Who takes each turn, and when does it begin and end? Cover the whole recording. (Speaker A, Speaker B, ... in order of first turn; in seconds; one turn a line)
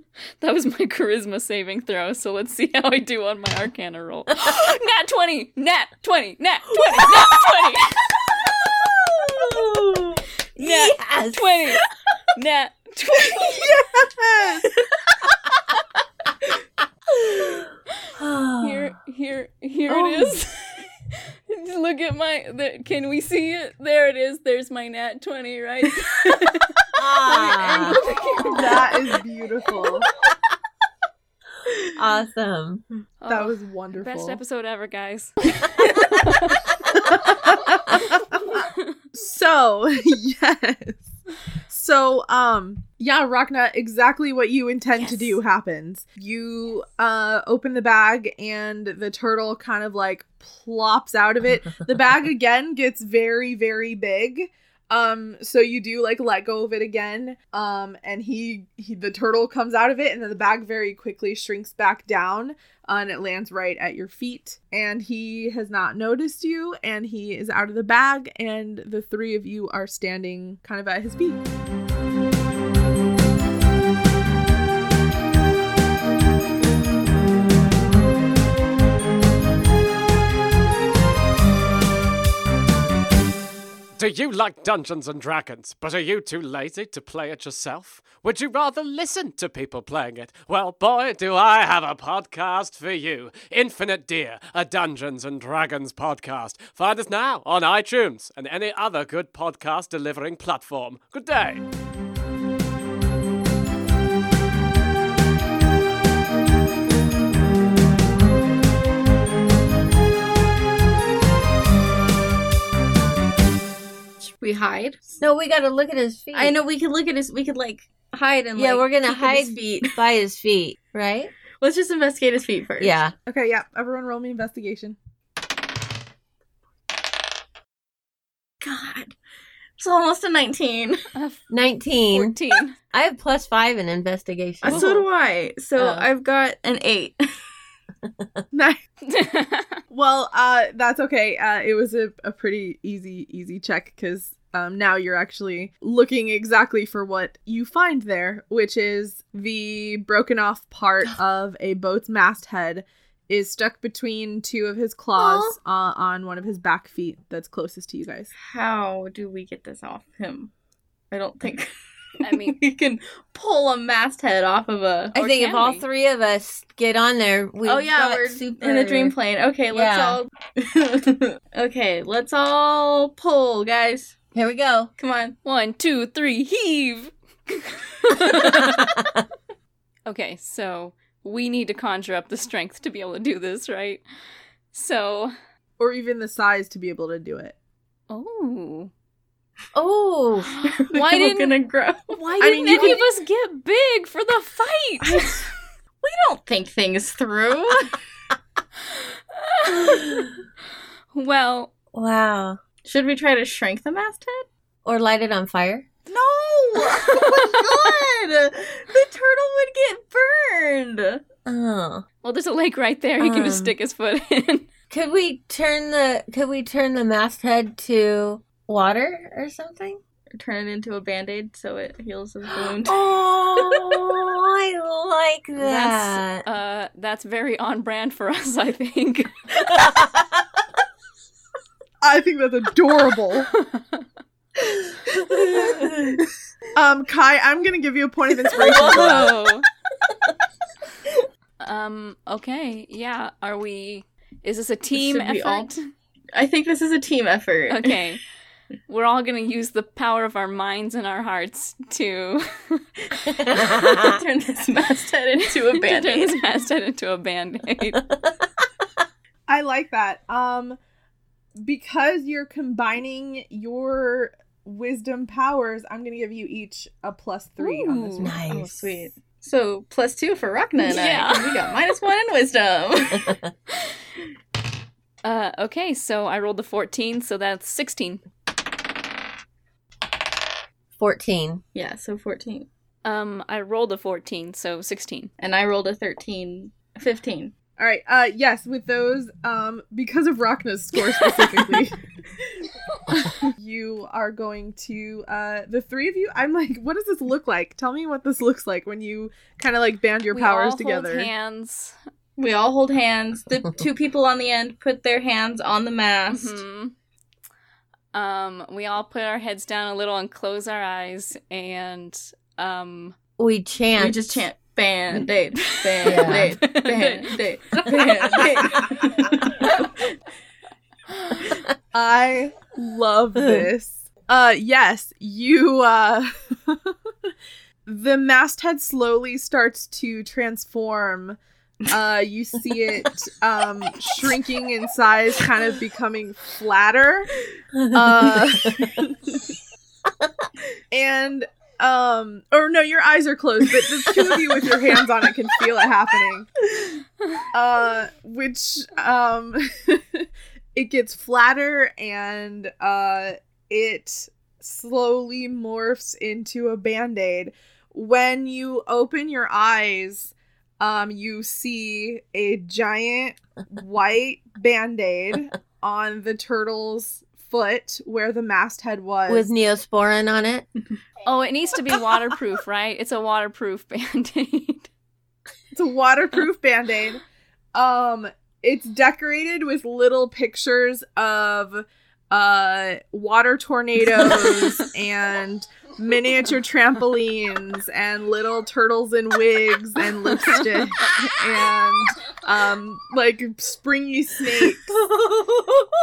Speaker A: 0.4-8.1
Speaker B: 8.4-11.8
Speaker A: 10.6-11.8
Speaker A: 12.3-13.7
Speaker C: 13.4-14.7
Speaker B: 17.3-17.6
Speaker B: 18.1-18.9
Speaker A: 18.6-20.8
Speaker B: 19.9-20.3
Speaker A: 21.5-26.6
Speaker B: 26.9-28.0
Speaker A: 27.2-29.0
Speaker C: 28.4-30.1
Speaker B: 31.9-32.8
Speaker A: 33.2-35.4
Speaker C: 33.3-34.4
Speaker A: 36.0-36.6
Speaker C: 36.9-41.1
Speaker A: 38.5-38.8
Speaker C: 41.7-71.4
Speaker D: 84.0-101.6
Speaker E: 114.2-115.1
Speaker B: 115.2-116.5
Speaker E: 116.3-120.0
Speaker B: 118.6-121.3
Speaker E: 121.6-123.0
Speaker B: 122.8-123.1
Speaker C: 123.3-125.0
Speaker E: 128.6-129.1
Speaker E: 129.8-131.0
Speaker A: 131.1-131.4
Speaker B: 131.5-132.3
Speaker A: 132.1-132.7
Speaker B: 132.9-134.9
Speaker E: 134.6-137.3
Speaker A: 134.7-135.0
Speaker B: 135.8-136.1
Speaker C: 138.5-138.8
Speaker A: 139.0-139.8
Speaker C: 139.9-158.3
Speaker B: 155.1-155.6
Speaker E: 158.4-160.5
Speaker E: 161.1-161.7
Speaker A: 162.2-162.6
Speaker E: 162.2-165.1
Speaker B: 165.1-169.1
Speaker A: 165.1-165.8
Speaker E: 167.6-174.2
Speaker B: 169.7-170.2
Speaker B: 174.3-174.9
Speaker E: 175.0-175.3
Speaker A: 175.4-178.9
Speaker B: 178.7-179.0
Speaker A: 180.1-184.0
Speaker A: 184.7-185.3
Speaker C: 185.8-187.5
Speaker A: 188.1-188.9
Speaker B: 189.7-190.5
Speaker A: 190.6-191.6
Speaker E: 190.6-192.2
Speaker A: 192.1-195.5
Speaker C: 192.4-193.0
Speaker E: 192.7-193.0
Speaker E: 195.0-195.4
Speaker E: 196.0-198.0
Speaker A: 199.0-200.3
Speaker B: 199.9-200.2
Speaker A: 201.1-201.7
Speaker B: 201.9-202.6
Speaker E: 202.8-204.5
Speaker B: 204.8-205.8
Speaker E: 206.1-211.2
Speaker B: 211.4-212.0
Speaker A: 212.2-214.7
Speaker B: 213.2-213.7
Speaker B: 214.9-220.0
Speaker E: 220.3-223.0
Speaker B: 222.8-226.4
Speaker A: 225.6-229.3
Speaker C: 232.0-233.5
Speaker A: 233.5-234.0
Speaker C: 235.3-235.9
Speaker C: 236.7-239.3
Speaker A: 238.6-239.7
Speaker E: 238.7-239.1
Speaker A: 241.6-245.8
Speaker E: 244.9-245.7
Speaker E: 246.3-248.0
Speaker A: 247.7-248.2
Speaker A: 248.9-252.8
Speaker B: 253.3-254.2
Speaker E: 253.5-256.4
Speaker A: 255.6-258.0
Speaker C: 259.5-260.8
Speaker C: 261.6-268.2
Speaker A: 267.6-268.3
Speaker B: 268.2-268.9
Speaker E: 268.5-273.4
Speaker A: 270.8-271.6
Speaker A: 275.2-278.2
Speaker B: 281.0-281.6
Speaker E: 281.7-282.7
Speaker A: 283.0-285.3
Speaker E: 285.4-287.5
Speaker C: 287.8-292.0
Speaker C: 293.1-301.3
Speaker A: 300.3-301.9
Speaker E: 302.4-306.6
Speaker A: 306.3-306.9
Speaker A: 308.1-313.1
Speaker B: 313.4-314.4
Speaker E: 313.9-319.9
Speaker A: 315.8-317.3
Speaker B: 316.0-316.6
Speaker A: 317.9-318.5
Speaker C: 321.9-327.3
Speaker B: 323.4-323.7
Speaker C: 327.9-337.3
Speaker B: 337.8-338.8
Speaker C: 337.9-339.4
Speaker C: 340.9-346.5
Speaker C: 347.5-369.5
Speaker B: 369.3-370.6
Speaker A: 371.2-374.9
Speaker C: 375.7-377.2
Speaker C: 377.7-394.9